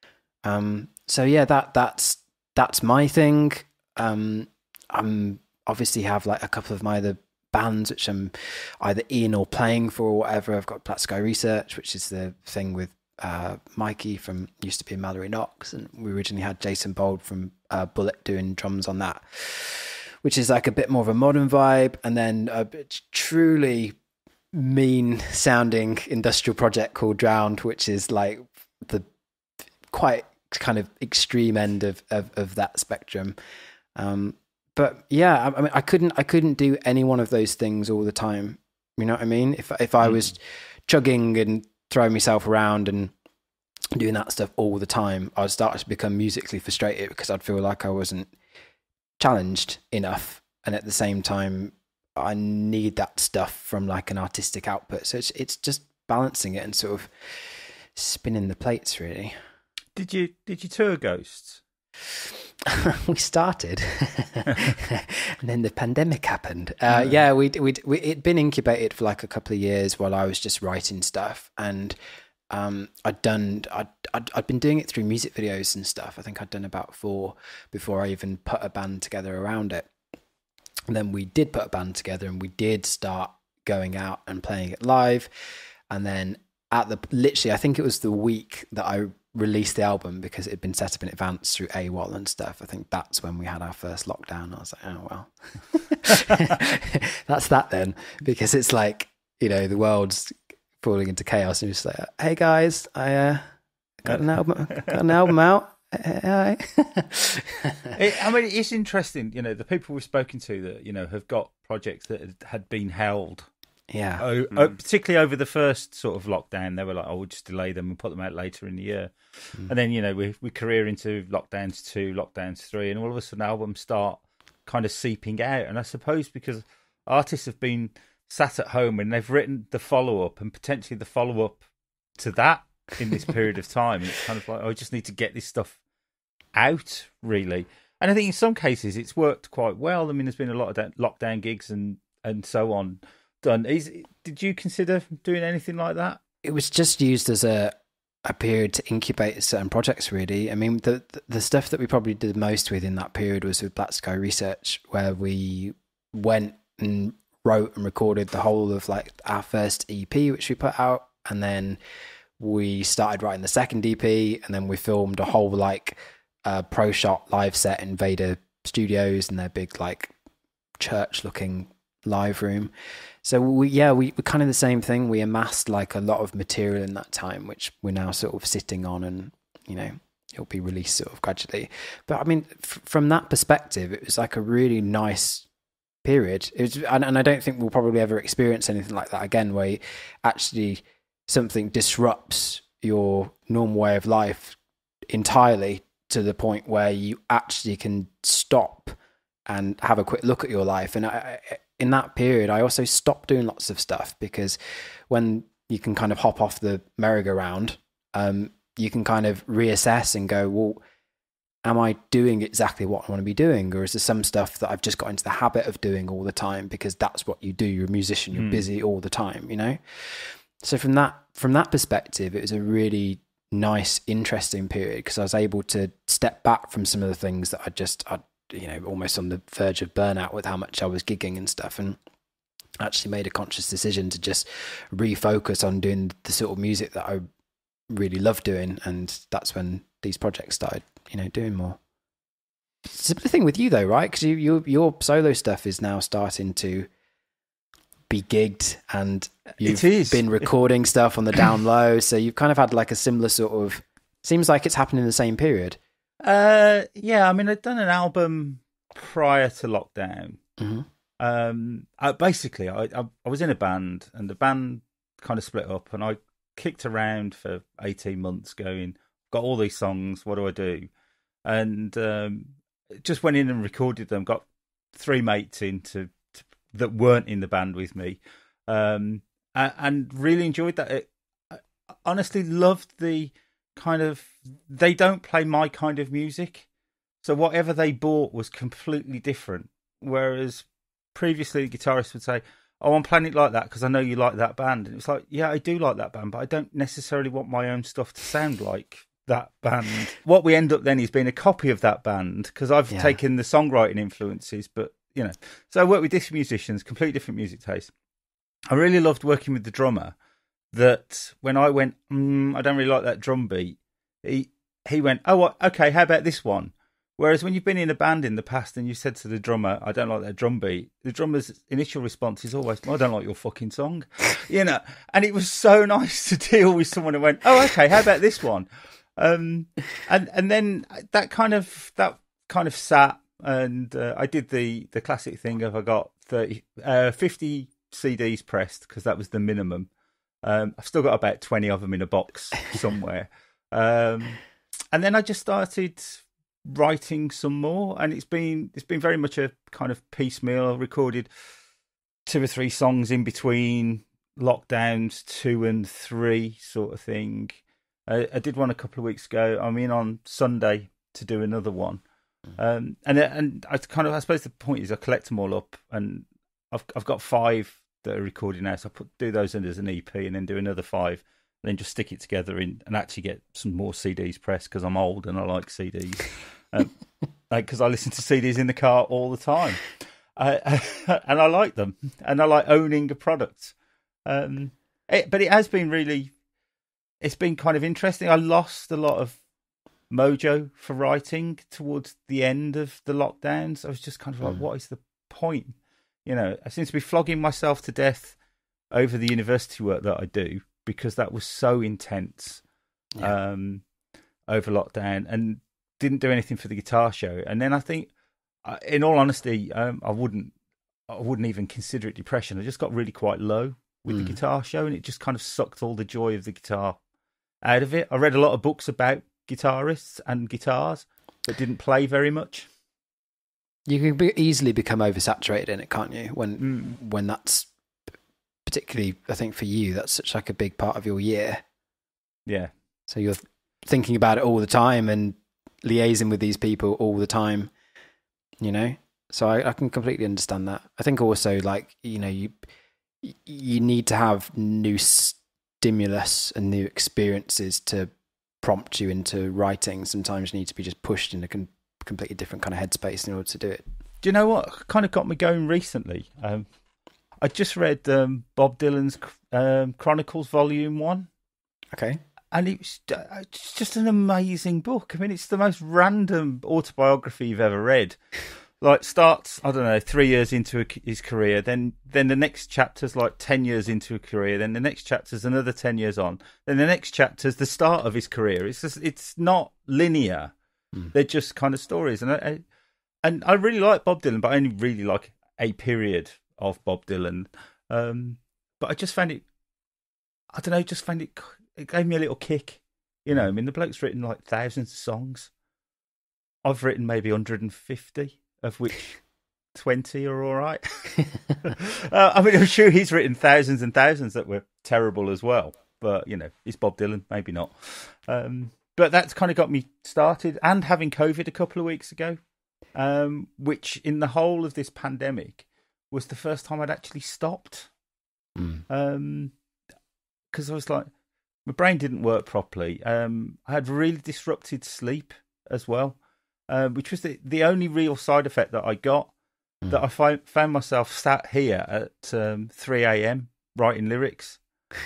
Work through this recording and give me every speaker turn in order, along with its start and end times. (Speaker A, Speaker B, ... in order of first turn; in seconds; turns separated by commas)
Speaker A: 0.4-24.0, Speaker A: 24.5-29.0, Speaker A: 29.9-33.4, Speaker A: 34.0-43.1, Speaker A: 44.0-48.3, Speaker A: 49.2-57.1, Speaker A: 57.9-59.3, Speaker B: 60.0-61.6, Speaker A: 62.7-72.0, Speaker A: 72.5-79.9, Speaker A: 80.9-85.3, Speaker A: 85.9-103.4, Speaker A: 104.0-107.9, Speaker B: 107.9-113.5, Speaker A: 113.9-114.2, Speaker B: 114.2-119.1, Speaker B: 119.7-131.6, Speaker B: 132.2-135.8, Speaker B: 136.5-146.2, Speaker A: 146.4-161.8, Speaker A: 162.4-170.1, Speaker A: 170.8-172.7, Speaker A: 173.2-185.5, Speaker A: 186.0-194.6, Speaker A: 195.1-198.9, Speaker A: 199.5-204.6, Speaker A: 205.1-210.8, Speaker A: 211.6-232.0, Speaker B: 218.3-218.6, Speaker A: 232.8-237.2, Speaker A: 237.9-241.8, Speaker A: 242.8-246.9, Speaker A: 248.1-255.8, Speaker B: 249.6-250.4, Speaker B: 256.2-260.4, Speaker A: 260.6-260.9, Speaker B: 261.2-270.9, Speaker B: 271.4-286.7, Speaker B: 287.2-307.9, Speaker A: 302.9-303.2, Speaker B: 308.7-310.1, Speaker B: 310.7-339.9, Speaker B: 340.4-344.4, Speaker B: 344.9-351.3, Speaker B: 352.2-362.0, Speaker B: 362.6-376.9, Speaker B: 377.5-383.7, Speaker B: 384.2-386.3, Speaker B: 387.2-389.4, Speaker B: 390.1-398.3, Speaker B: 398.9-402.6, Speaker B: 403.2-403.8, Speaker B: 404.5-408.1, Speaker B: 408.6-410.5, Speaker B: 411.1-417.0, Speaker B: 417.6-422.7, Speaker A: 423.9-427.7, Speaker B: 426.6-426.9, Speaker A: 428.6-431.6, Speaker B: 432.4-432.7, Speaker A: 433.1-437.7, Speaker A: 438.6-442.6, Speaker A: 443.2-448.1, Speaker A: 448.6-453.8, Speaker B: 454.2-456.7, Speaker B: 457.4-461.3, Speaker A: 461.9-462.2, Speaker B: 462.5-468.2, Speaker B: 468.8-480.5, Speaker B: 481.1-482.6, Speaker B: 483.2-489.4, Speaker B: 490.5-495.5, Speaker B: 496.6-499.1, Speaker B: 499.7-512.4, Speaker B: 512.9-517.9, Speaker B: 518.9-519.5, Speaker B: 520.5-521.1, Speaker B: 521.6-526.2, Speaker B: 526.7-529.3, Speaker B: 529.9-534.6